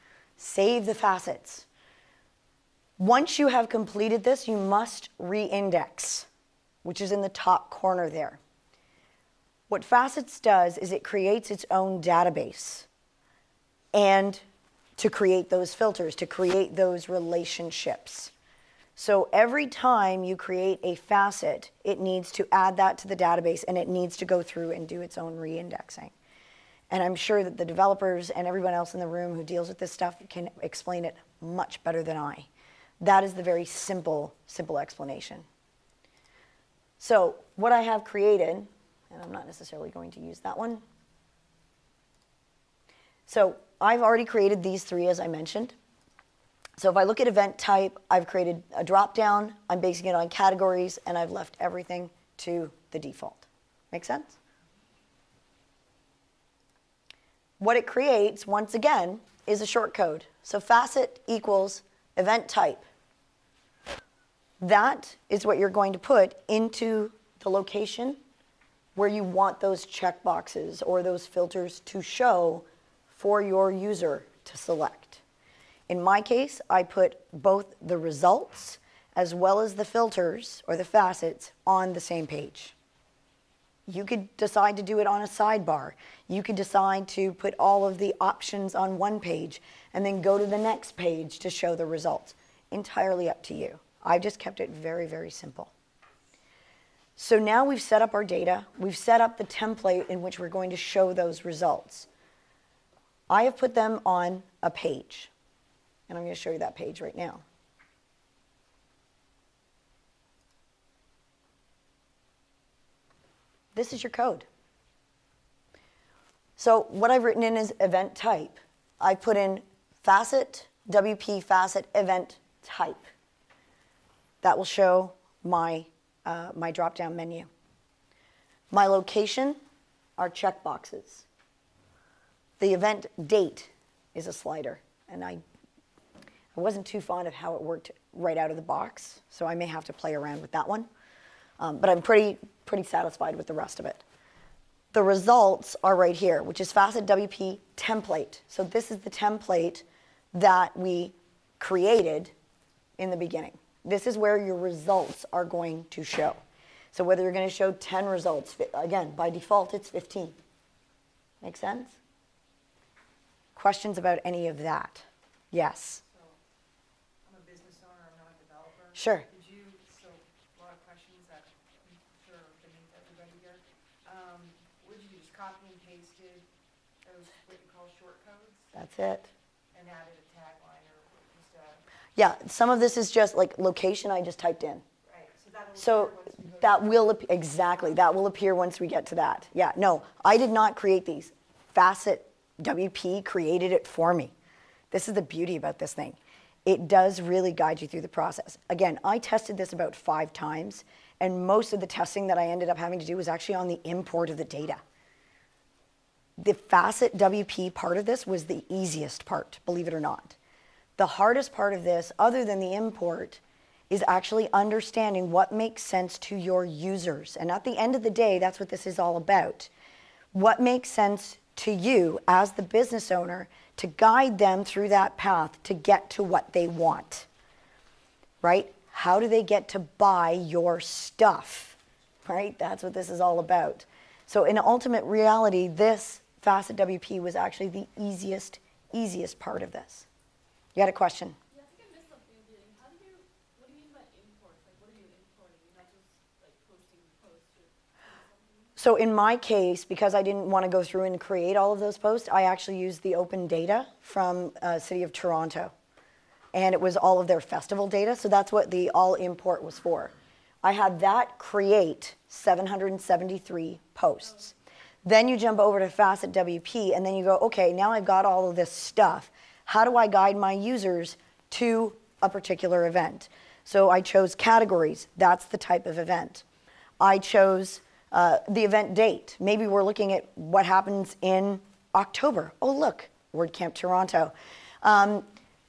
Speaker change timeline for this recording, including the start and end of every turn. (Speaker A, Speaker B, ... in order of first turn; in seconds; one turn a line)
Speaker A: 0.4-1.6
Speaker A: 3.0-6.3
Speaker A: 6.8-8.4
Speaker A: 9.7-12.9
Speaker A: 13.9-14.4
Speaker A: 15.0-18.3
Speaker A: 18.9-26.1
Speaker A: 26.9-32.5
Speaker A: 33.0-35.5
Speaker A: 37.0-40.8
Speaker A: 43.3-45.7
Speaker A: 46.8-54.4
Speaker A: 57.6-62.8
Speaker A: 64.6-68.2
Speaker A: 69.0-75.2
Speaker A: 75.9-82.7
Speaker A: 83.9-95.7
Speaker A: 97.2-102.1
Speaker A: 103.3-105.3
Speaker A: 106.1-107.4
Speaker A: 113.7-114.5
Speaker A: 116.6-123.1
Speaker A: 124.4-127.5
Speaker A: 128.7-129.6
Speaker A: 130.2-131.2
Speaker A: 132.6-135.4
Speaker A: 136.5-140.9
Speaker A: 141.6-144.0
Speaker A: 144.9-152.3
Speaker A: 153.0-156.4
Speaker A: 156.9-160.4
Speaker A: 161.4-162.0
Speaker A: 163.6-166.0
Speaker B: 166.0-166.4
Speaker B: 167.2-176.4
Speaker A: 168.9-169.3
Speaker B: 177.0-178.7
Speaker A: 178.7-179.3
Speaker B: 179.7-181.8
Speaker A: 182.2-184.8
Speaker B: 185.0-187.1
Speaker A: 185.8-194.3
Speaker A: 194.9-204.8
Speaker A: 206.4-210.4
Speaker A: 211.0-219.7
Speaker A: 220.3-227.3
Speaker A: 228.4-240.1
Speaker A: 240.7-241.3
Speaker C: 241.5-248.8
Speaker A: 248.8-255.7
Speaker A: 256.5-264.5
Speaker A: 265.0-276.4
Speaker A: 277.0-285.3